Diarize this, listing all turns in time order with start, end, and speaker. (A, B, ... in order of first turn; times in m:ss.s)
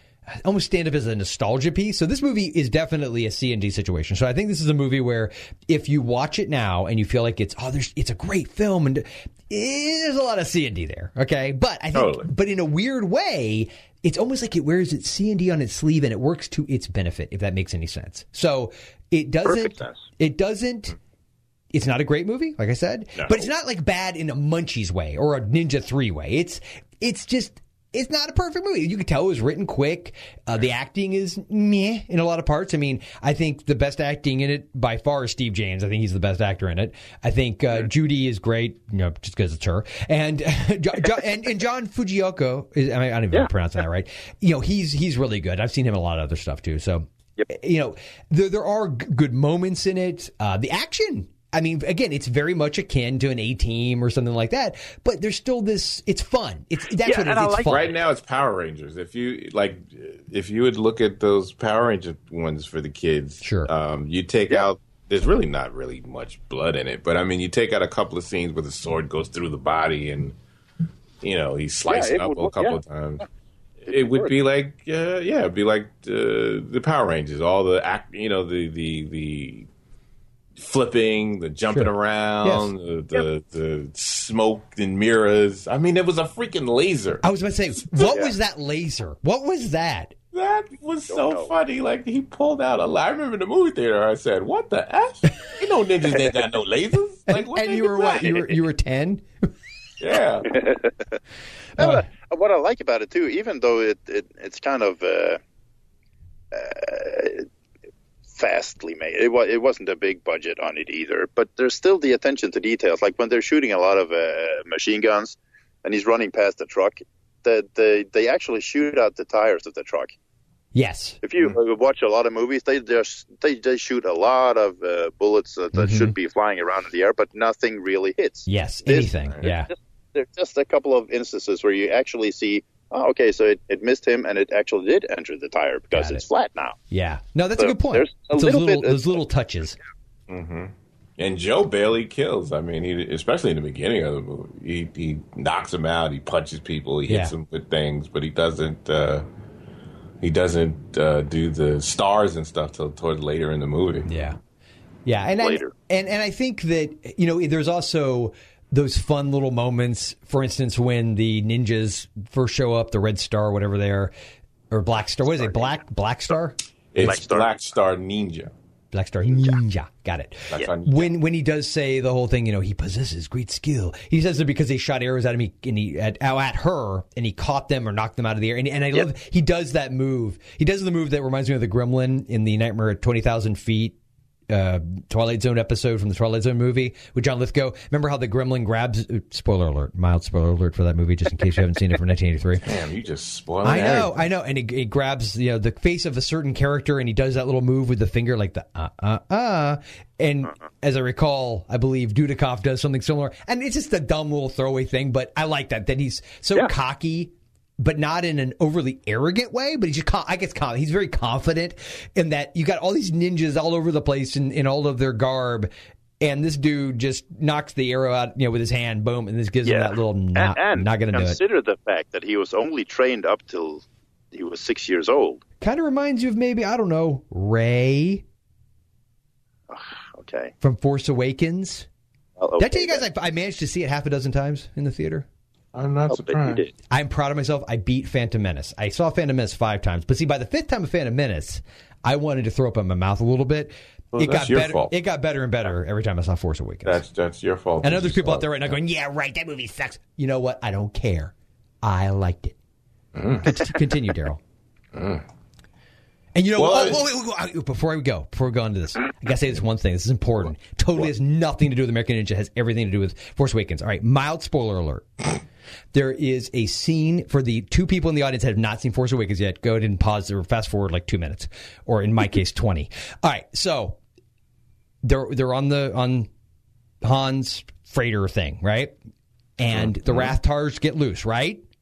0:00.3-0:21.0 A
0:12.0-0:12.3 B
0:19.4-0:20.0 C
0:21.7-0:57.9 A
0:23.2-0:23.5 B
0:57.0-0:57.8 C
0:57.7-1:10.4 B
1:03.4-1:03.7 A
1:11.2-1:13.2 B
1:11.9-1:12.8 C
1:13.9-1:14.3 C
1:13.9-1:19.7 B
1:20.6-1:27.2 B
1:22.4-1:22.7 A
1:27.2-1:30.2 A
1:28.1-1:28.3 C
1:30.3-1:38.4 B
1:31.1-1:31.5 C
1:37.3-1:39.3 A
1:40.0-1:40.5 B
1:40.5-1:41.2 C
1:41.8-1:42.0 A
1:41.8-1:45.4 C
1:46.5-1:47.5 C
1:48.4-2:00.2 C
2:00.7-2:01.2 A
2:01.2-2:16.8 C
2:05.7-2:06.1 A
2:08.5-2:09.7 A
2:15.9-2:16.2 A
2:16.9-2:19.8 A
2:17.6-2:19.2 C
2:20.3-2:29.3 B
2:27.1-2:27.3 A
2:30.2-2:34.1 B
2:34.1-2:34.4 A
2:35.1-2:44.1 A
2:35.4-2:35.7 C
2:44.7-2:46.6 A
2:45.3-2:45.8 C
2:46.9-2:48.5 B
2:47.0-2:47.6 C
2:48.9-3:04.0 A
2:50.5-2:51.1 B
3:04.5-3:12.7 A
3:12.6-3:14.3 B
3:13.6-3:41.4 A
3:39.6-3:45.4 C
3:45.6-3:48.2 A
3:49.7-3:50.5 C
3:50.6-3:51.9 A
3:52.4-3:53.0 C
3:52.6-3:55.3 A
3:55.7-3:56.6 B
3:56.1-3:56.7 C
3:56.9-4:07.0 A
4:04.1-4:04.9 B
4:06.8-4:08.6 B
4:07.8-4:12.6 A
4:13.1-4:13.6 B
4:13.4-4:14.4 A
4:14.9-4:15.2 B
4:16.4-4:25.4 A
4:16.6-4:17.0 B
4:25.9-4:34.0 A
4:35.0-4:36.3 A
4:37.0-4:39.0 A
4:39.6-4:41.6 A
4:39.7-4:40.3 B